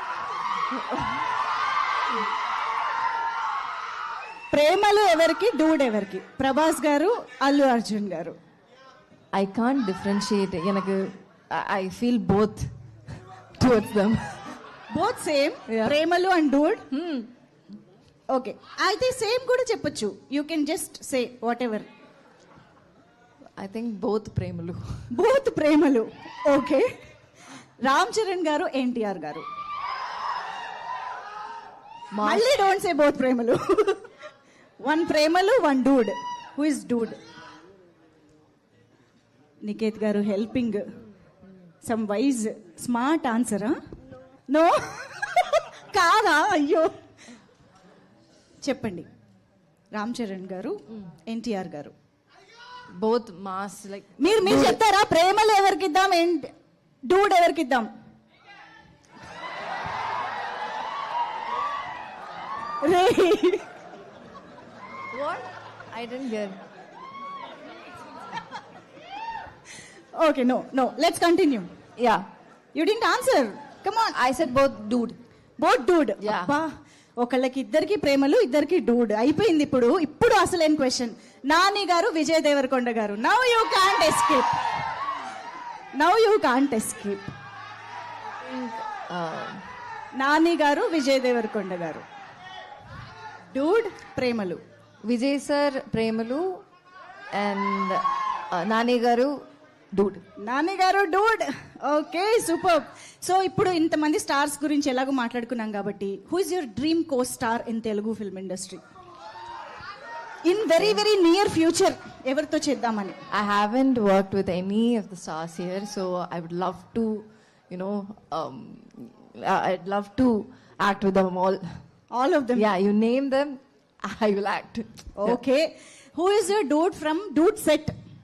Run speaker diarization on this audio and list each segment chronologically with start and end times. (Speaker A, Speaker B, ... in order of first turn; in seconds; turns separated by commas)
Speaker A: 4.5-8.4, Speaker B: 9.3-12.7, Speaker B: 13.6-14.6, Speaker A: 14.9-16.9, Speaker B: 15.7-16.0, Speaker B: 16.9-17.3, Speaker A: 18.3-21.9, Speaker B: 23.6-25.1, Speaker A: 25.1-26.9, Speaker A: 27.8-29.5, Speaker B: 32.1-32.5, Speaker A: 32.2-34.0, Speaker A: 34.8-37.2, Speaker A: 39.6-40.8, Speaker A: 41.8-43.8, Speaker A: 44.5-46.9, Speaker A: 48.6-49.1, Speaker A: 49.9-51.9, Speaker B: 52.9-54.8, Speaker A: 54.2-56.5, Speaker A: 57.1-57.9, Speaker A: 62.8-63.7, Speaker B: 65.1-66.6, Speaker A: 70.2-71.7, Speaker B: 72.0-72.2, Speaker A: 72.7-74.2, Speaker B: 74.1-75.2, Speaker A: 75.6-84.6, Speaker B: 76.2-76.5, Speaker A: 86.0-87.3, Speaker B: 88.5-89.7, Speaker A: 90.2-92.0, Speaker A: 93.5-94.6, Speaker B: 95.0-96.6, Speaker B: 97.3-99.4, Speaker B: 99.9-100.2, Speaker A: 100.4-108.8, Speaker A: 110.5-113.2, Speaker B: 113.3-121.6, Speaker A: 122.1-122.7, Speaker B: 122.5-125.4, Speaker A: 125.2-127.9